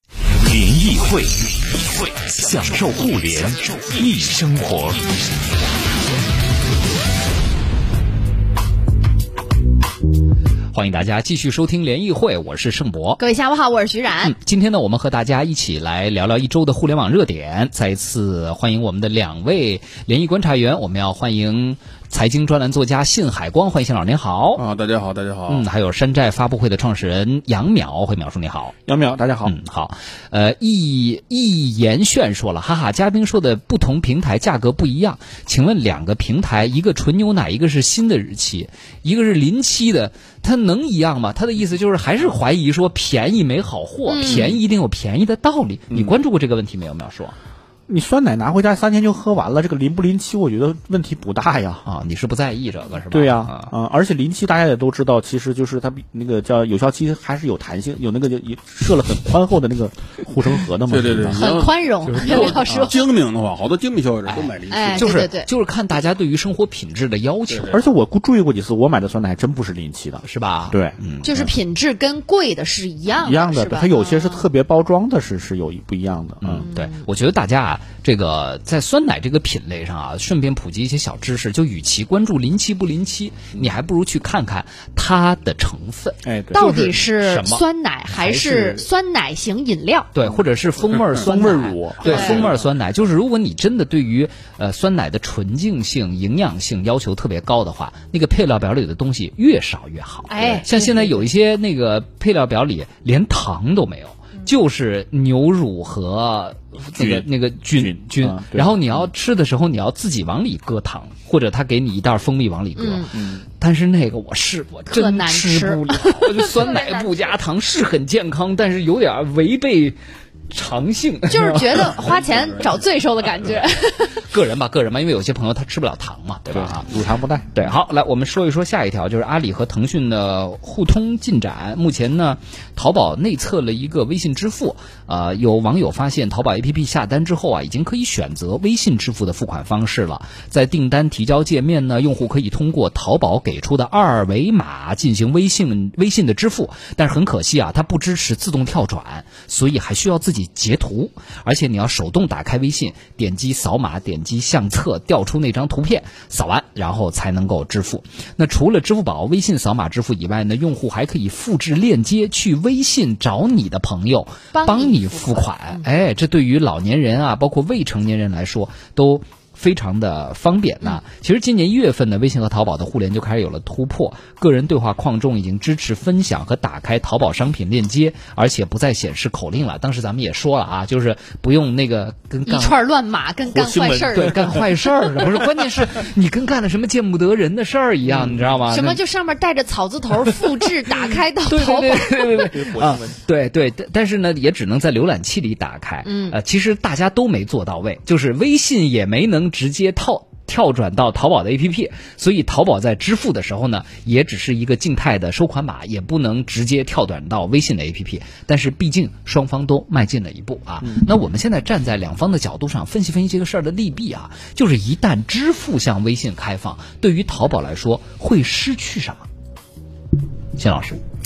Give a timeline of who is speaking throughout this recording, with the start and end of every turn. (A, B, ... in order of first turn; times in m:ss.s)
0:00.3-0:05.1 A
0:10.7-0:13.2 B
0:13.2-0:14.3 C
0:14.2-0:24.6 B
0:24.5-0:25.6 D
0:25.5-0:28.7 B
0:28.8-0:29.6 E
0:29.4-0:47.4 B
0:44.1-0:44.6 C
0:45.9-0:46.2 E
0:47.9-0:51.8 E
0:51.8-0:53.7 B
0:53.1-1:01.5 E
1:00.9-1:05.3 D
1:01.3-1:03.0 C
1:02.0-1:02.7 B
1:04.3-1:07.8 B
1:04.7-1:05.5 C
1:07.5-1:07.8 D
1:07.7-1:11.0 E
1:10.2-1:11.5 B
1:11.2-1:14.4 C
1:13.2-1:16.7 E
1:16.4-1:28.8 B
1:16.6-1:17.0 C
1:26.2-1:26.7 E
1:26.5-1:30.1 C
1:30.1-2:00.0 B
1:31.1-1:32.7 E
1:32.0-1:32.5 C
1:40.3-1:41.2 C
1:47.0-1:49.1 E
1:52.8-1:53.1 C
1:53.1-1:53.4 E
1:54.9-1:57.3 C
2:00.5-2:02.0 B
2:01.3-2:04.3 C
2:01.9-2:02.8 D
2:04.2-2:06.9 B
2:06.5-2:07.5 E
2:07.5-3:02.8 B
2:44.5-2:45.8 C
3:02.4-3:04.7 C
3:03.4-3:04.6 E
3:04.1-3:09.0 B
3:05.2-3:05.4 E
3:08.1-3:08.4 E
3:08.7-3:12.5 C
3:11.0-3:39.2 B
3:12.4-3:13.2 E
3:16.0-3:16.4 C
3:40.6-3:41.0 B